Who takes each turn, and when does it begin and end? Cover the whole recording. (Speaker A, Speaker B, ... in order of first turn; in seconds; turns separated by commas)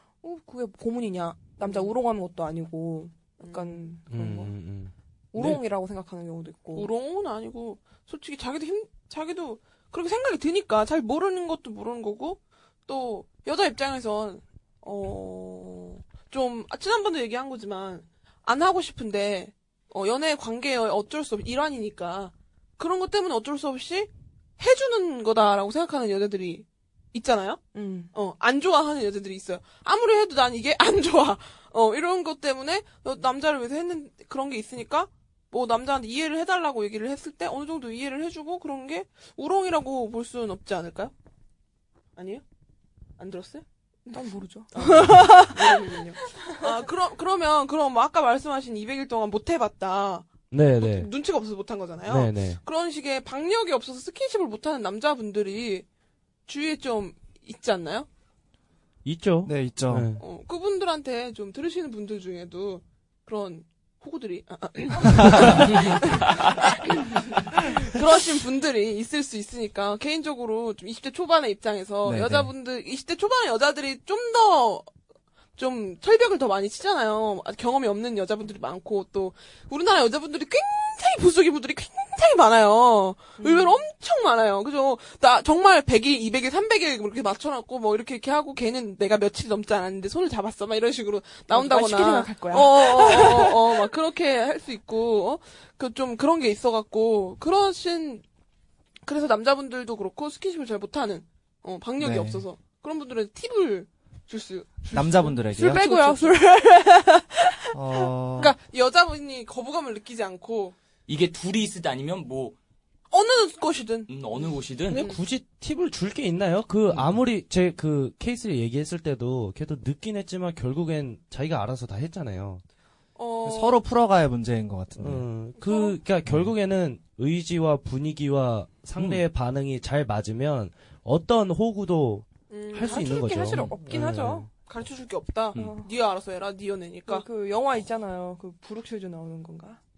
Speaker A: 0.2-4.6, Speaker B: 1.6-1.9, Speaker B: 3.4-3.9, Speaker C: 4.1-5.6, Speaker A: 5.3-6.9, Speaker B: 6.7-41.1, Speaker A: 27.8-28.1, Speaker B: 42.2-42.4, Speaker B: 43.2-55.9, Speaker A: 44.1-46.8, Speaker C: 50.5-51.1, Speaker C: 52.1-52.6, Speaker B: 56.5-58.1, Speaker C: 59.0-60.2, Speaker D: 59.5-60.1, Speaker B: 60.2-74.9, Speaker D: 72.0-72.5, Speaker B: 75.6-98.2, Speaker A: 83.4-83.8, Speaker A: 91.5-93.9, Speaker B: 99.1-106.4, Speaker D: 102.0-102.5, Speaker D: 104.9-106.0, Speaker A: 105.4-108.0, Speaker D: 107.7-108.5, Speaker B: 108.4-110.8, Speaker E: 111.1-112.6, Speaker B: 113.1-115.2, Speaker E: 114.1-115.0, Speaker C: 114.9-122.6, Speaker B: 123.2-123.8, Speaker D: 123.4-125.3, Speaker C: 125.0-134.5, Speaker B: 125.6-126.0, Speaker E: 129.0-129.2, Speaker B: 132.5-133.5, Speaker A: 132.8-134.5, Speaker B: 134.7-137.2, Speaker A: 135.6-135.9, Speaker A: 137.1-139.8